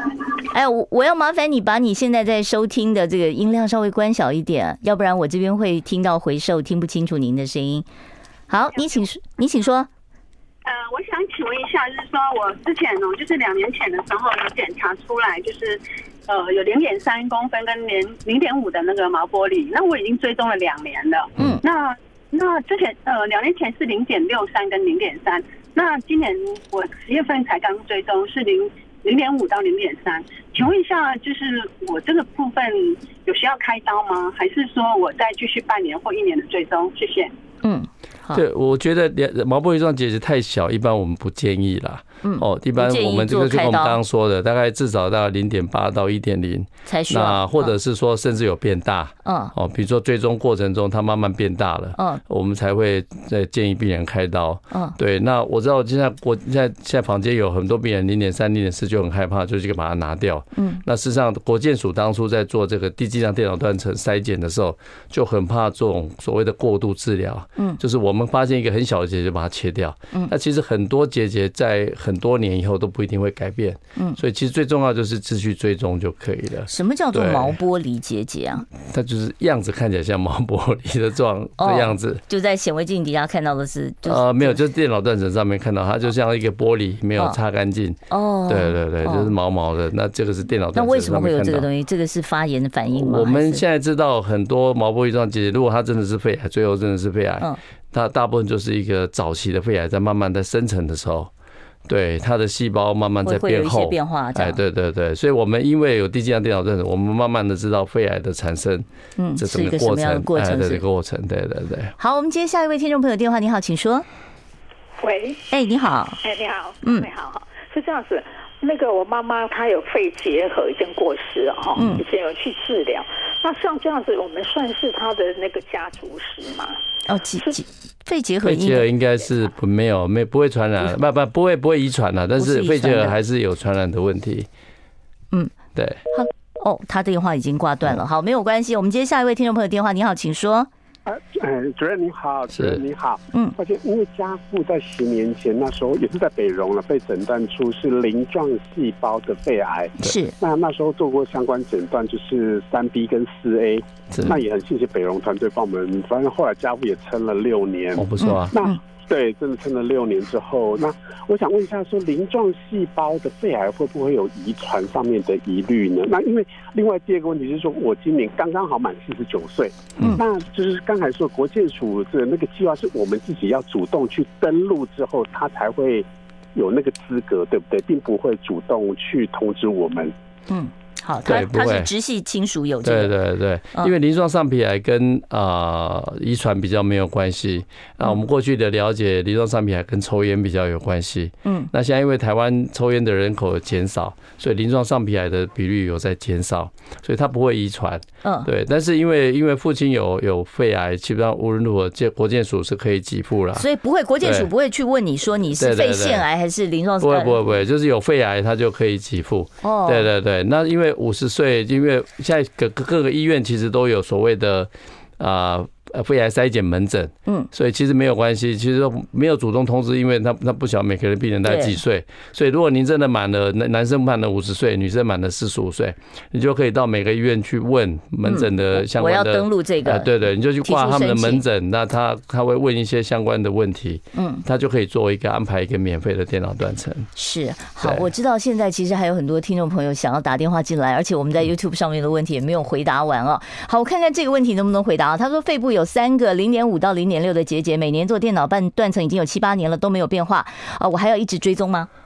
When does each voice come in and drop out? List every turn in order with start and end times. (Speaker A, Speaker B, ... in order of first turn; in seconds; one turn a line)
Speaker A: 0.4-7.8
Speaker A: 8.5-9.9
Speaker B: 10.6-37.3
Speaker A: 37.6-38.4
Speaker C: 38.3-77.5
Speaker A: 42.2-44.0
Speaker A: 46.9-47.7
Speaker A: 49.2-49.5
Speaker A: 52.0-52.2
Speaker A: 60.5-60.8
Speaker A: 76.7-78.7
Speaker C: 78.8-82.2
Speaker A: 81.6-84.6
Speaker C: 84.0-91.7
Speaker A: 88.1-89.3
Speaker A: 90.7-93.6
Speaker C: 92.9-101.3
Speaker C: 101.9-111.9
Speaker A: 103.2-104.6
Speaker A: 109.2-110.8
Speaker A: 112.0-114.0
Speaker D: 115.0-115.4
Speaker A: 115.5-116.2
Speaker D: 116.2-126.8
Speaker A: 116.8-117.1
Speaker A: 121.8-122.0
Speaker A: 127.1-128.9
Speaker C: 128.4-134.5
Speaker A: 132.4-133.2
Speaker C: 135.7-136.0
Speaker A: 136.1-140.7
Speaker E: 141.1-180.1
Speaker A: 150.0-150.3
Speaker C: 157.9-158.5
Speaker A: 158.2-158.8
Speaker A: 180.5-183.1
Speaker C: 181.2-181.9
Speaker C: 182.8-203.7
Speaker A: 191.4-191.7
Speaker A: 203.6-207.6
Speaker C: 204.2-204.5
Speaker C: 205.6-206.2
Speaker C: 207.0-237.1
Speaker A: 209.6-210.1
Speaker A: 221.4-221.8
Speaker A: 228.2-231.4
Speaker A: 234.1-234.4
Speaker A: 237.2-251.9
Speaker C: 237.8-238.1